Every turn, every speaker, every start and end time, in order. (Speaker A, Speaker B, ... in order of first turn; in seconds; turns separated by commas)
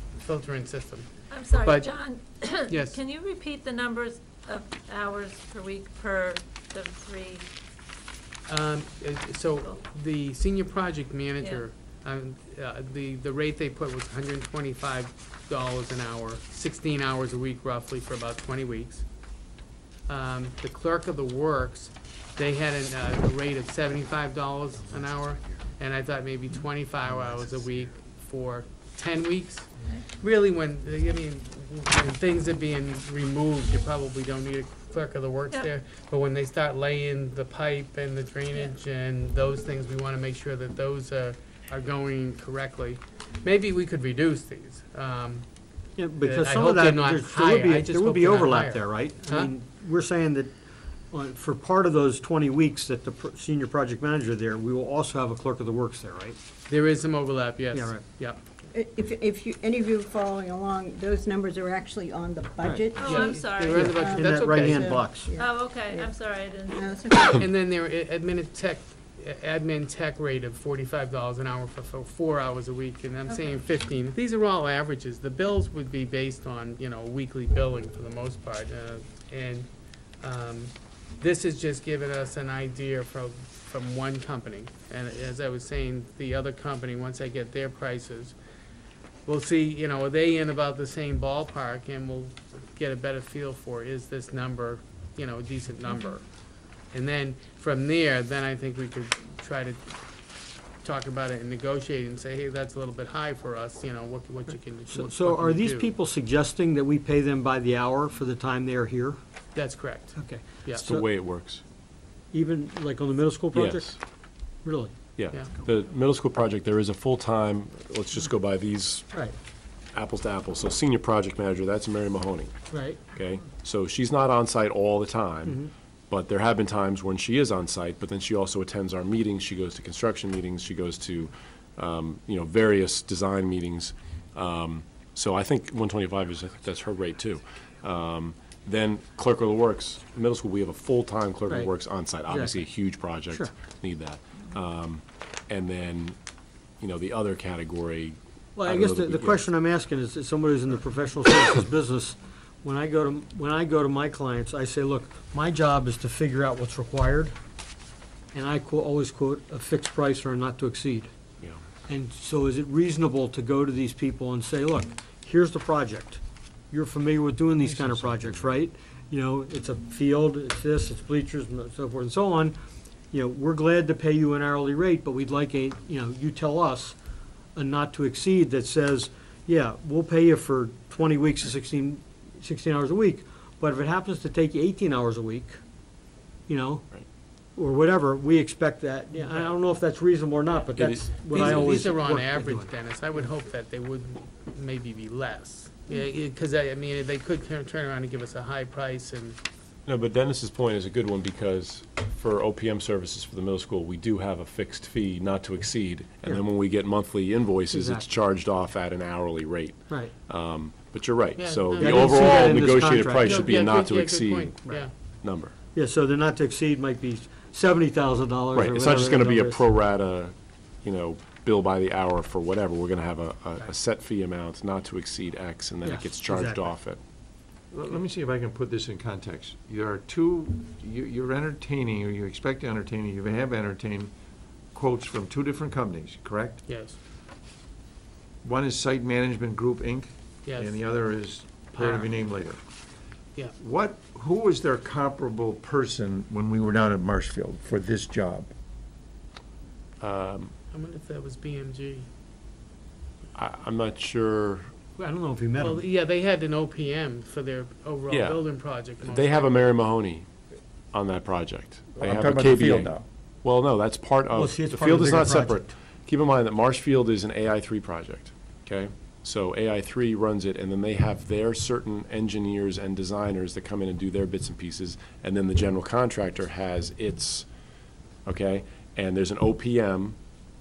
Speaker A: 0.2-1.9, Speaker B: 1.3-7.5, Speaker A: 2.7-3.0, Speaker A: 8.5-19.1, Speaker B: 11.4-11.7, Speaker A: 20.1-45.5, Speaker C: 46.0-50.5, Speaker A: 46.2-49.5, Speaker C: 51.1-56.4, Speaker A: 56.7-58.4, Speaker C: 57.7-58.0, Speaker D: 58.7-63.5, Speaker C: 62.6-65.4, Speaker B: 62.9-64.2, Speaker A: 63.0-65.0, Speaker D: 64.0-66.0, Speaker B: 65.3-67.2, Speaker D: 66.8-67.2, Speaker A: 67.2-79.7, Speaker A: 80.2-88.4, Speaker A: 89.3-96.2, Speaker A: 96.9-99.9, Speaker A: 100.8-105.9, Speaker C: 104.9-109.2, Speaker A: 109.5-110.8, Speaker C: 110.2-111.0, Speaker E: 110.8-111.6, Speaker C: 112.3-114.0, Speaker E: 113.5-114.0, Speaker C: 114.6-114.9, Speaker E: 115.2-119.1, Speaker E: 119.9-122.5, Speaker C: 122.7-123.0, Speaker E: 123.1-146.2, Speaker C: 142.3-142.7, Speaker E: 146.8-149.5, Speaker C: 148.6-157.3, Speaker C: 158.3-161.1, Speaker C: 161.9-166.2, Speaker C: 166.7-172.6, Speaker E: 167.8-168.4, Speaker C: 173.1-176.9, Speaker C: 177.6-185.6, Speaker C: 186.5-186.9, Speaker C: 187.6-192.7, Speaker E: 190.8-191.8, Speaker A: 191.3-199.4, Speaker E: 199.9-214.6, Speaker C: 207.7-208.1, Speaker A: 211.4-214.9, Speaker C: 211.8-213.5, Speaker E: 215.2-215.5, Speaker C: 215.7-219.6, Speaker E: 218.5-227.0, Speaker C: 225.8-226.7, Speaker F: 227.7-234.1, Speaker F: 234.7-236.7, Speaker A: 236.7-237.0, Speaker F: 238.4-242.6, Speaker A: 240.4-240.8, Speaker A: 241.7-242.2, Speaker F: 243.6-248.5, Speaker E: 250.0-250.5, Speaker A: 250.7-252.1, Speaker E: 253.3-254.7, Speaker C: 255.0-255.8, Speaker A: 255.6-259.7, Speaker E: 258.1-260.3, Speaker E: 260.9-277.5, Speaker F: 262.0-263.0, Speaker C: 264.3-265.7, Speaker E: 278.3-280.2